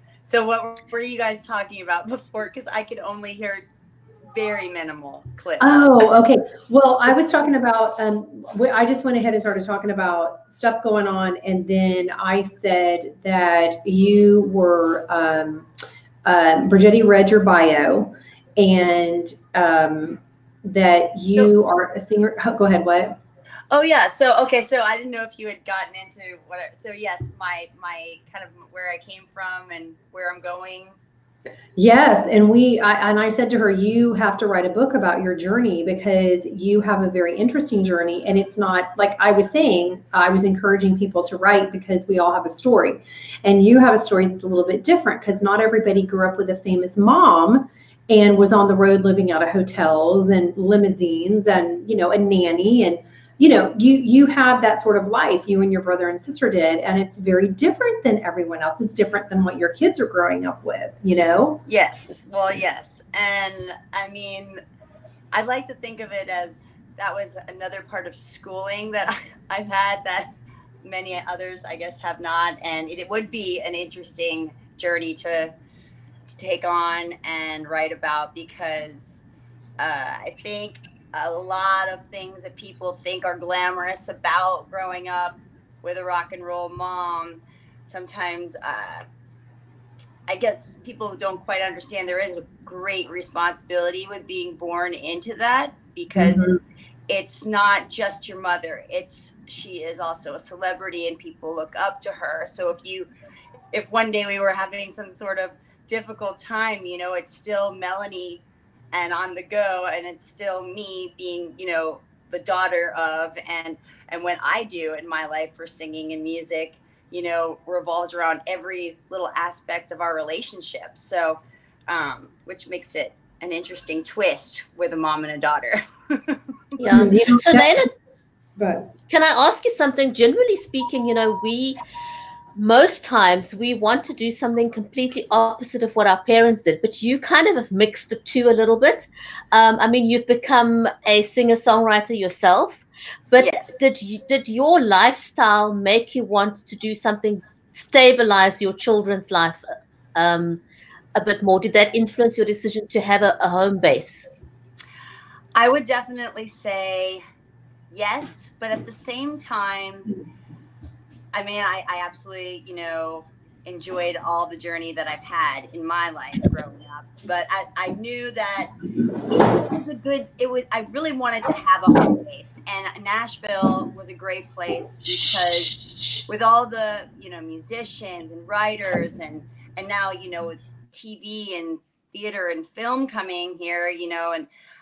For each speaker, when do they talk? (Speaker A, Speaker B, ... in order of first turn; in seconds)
Speaker A: 0.2-3.6, 4.3-5.9, 23.7-31.0, 61.7-64.6, 65.3-70.3, 70.8-75.5, 76.3-79.2, 79.8-89.0, 90.3-96.5, 97.1-103.1, 103.7-126.4, 143.4-143.8, 155.6-157.2, 157.9-160.1, 161.3-168.7, 169.3-184.5
Speaker B: 5.6-15.7, 16.2-23.2, 31.8-61.6, 96.1-96.6, 126.9-127.8, 128.6-128.9
Speaker C: 126.8-127.9, 129.1-131.8, 132.6-149.6, 150.1-150.6, 151.1-154.3